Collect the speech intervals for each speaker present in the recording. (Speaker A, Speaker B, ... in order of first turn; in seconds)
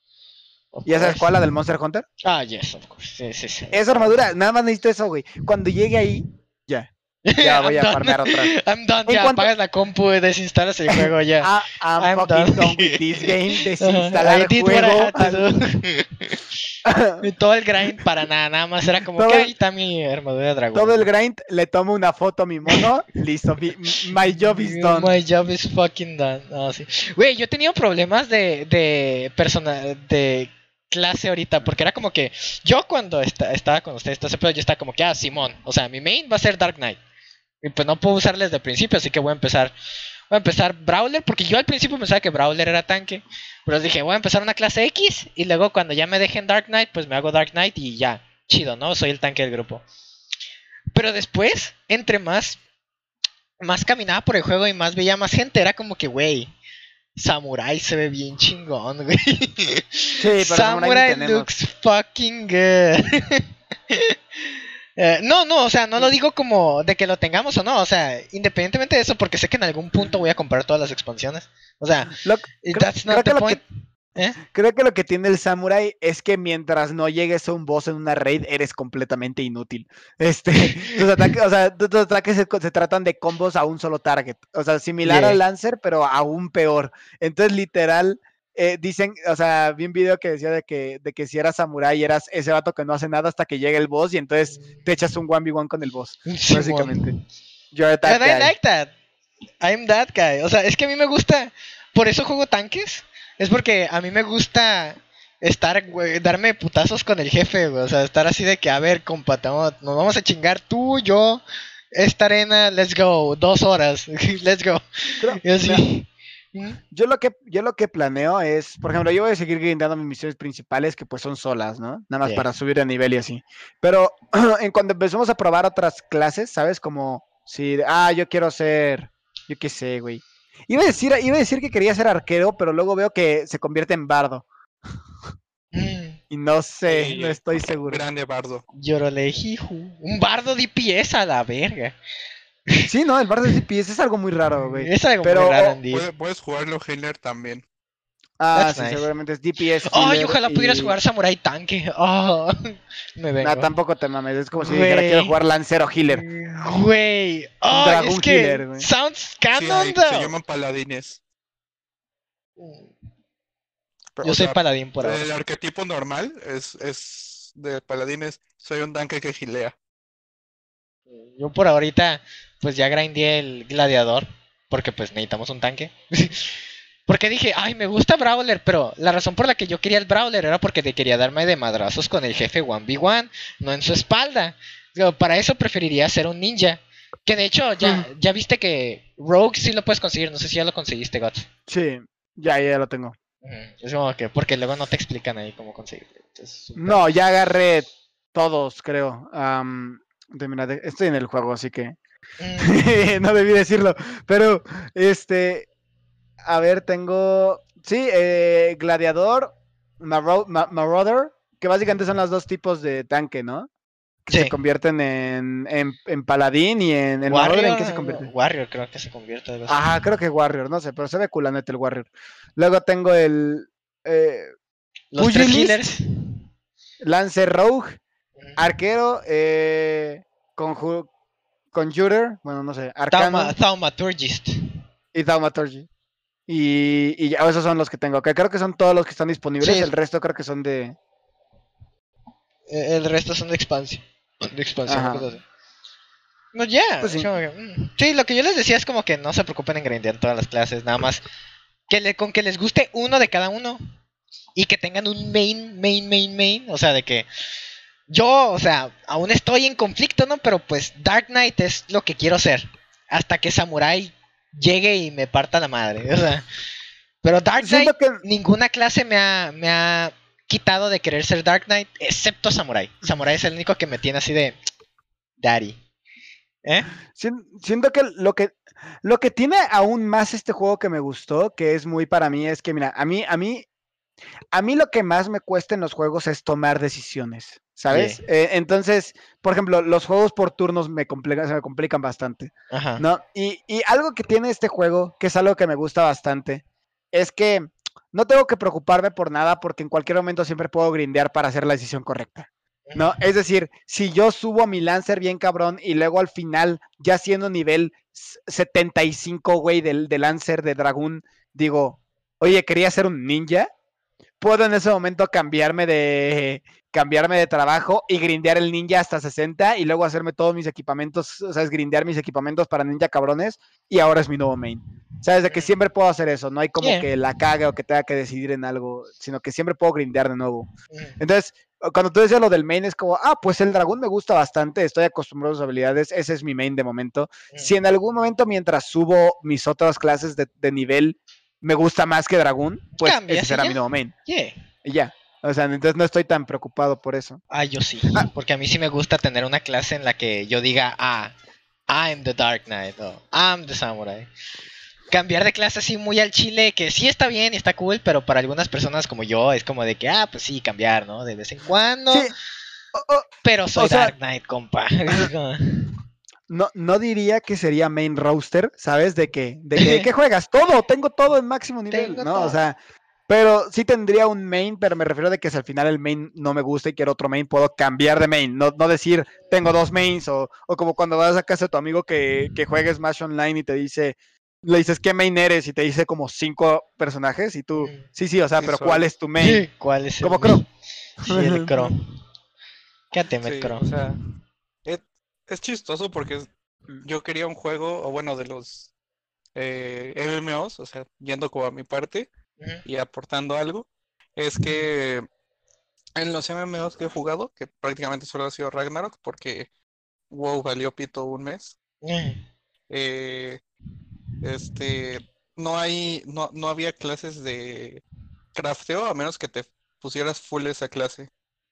Speaker A: 0.7-1.4, 2.2-4.2, 7.2-16.6, 17.2-21.1, 24.2-37.0, 37.6-39.7, 40.3-49.8, 50.9-52.6, 53.6-56.5, 57.1-64.2, 65.0-73.6, 74.1-74.4, 80.6-81.0, 85.0-85.4, 96.3-97.2, 98.0-98.9, 99.6-111.4, 111.9-116.8, 135.7-136.2, 138.7-141.9, 144.5-146.1, 148.5-149.1, 149.9-153.7, 154.6-155.3, 156.1-160.3, 162.6-162.9, 164.2-165.3, 171.1-191.5, 193.4-197.1, 202.4-202.8, 217.3-220.0, 225.1-226.0, 233.1-234.6, 239.6-239.9, 242.7-245.4, 246.5-251.2, 251.9-253.8, 254.6-257.2, 258.1-266.4, 267.2-274.6, 275.4-275.8, 276.6-276.9, 287.9-288.2, 292.7-293.0, 302.9-303.2, 326.8-327.1, 330.9-331.2, 343.0-344.6, 347.5-351.3, 351.9-354.3, 355.1-362.3, 363.4-365.9, 369.8-370.1, 371.9-372.6, 387.8-388.1, 389.4-390.6, 391.2-392.0, 393.1-394.1, 412.0-412.4
Speaker B: 0.8-2.0, 3.7-8.5, 9.1-9.5, 10.9-15.5, 16.8-17.2, 19.1-19.5, 20.7-25.1, 60.2-61.5, 72.2-73.6, 74.4-97.1, 97.7-98.5, 115.2-115.8, 116.9-134.4, 136.3-138.0, 142.8-145.8, 148.4-150.9, 153.4-156.2, 157.7-158.8, 187.8-188.1, 191.7-193.2, 196.8-202.0, 202.6-205.7, 206.4-213.7, 214.2-218.3, 219.7-224.5, 225.2-226.0, 227.0-228.0, 228.6-231.1, 231.7-233.5, 235.1-235.9, 236.5-240.9, 244.9-245.3, 247.0-247.3, 267.6-268.2, 277.1-283.6, 284.5-313.7, 314.4-330.7, 331.2-344.1, 344.8-347.4, 362.9-364.1, 366.5-372.8, 373.3-389.6, 390.2-390.6, 391.2-391.9
Speaker C: 136.8-138.6, 145.9-147.6, 159.5-161.2, 164.2-169.7, 388.6-389.0, 393.4-394.2, 394.8-396.4, 397.0-398.9, 399.5-402.3, 402.8-405.2, 406.1-409.7, 410.3-411.8, 412.9-413.6, 414.4-418.0, 418.5-421.3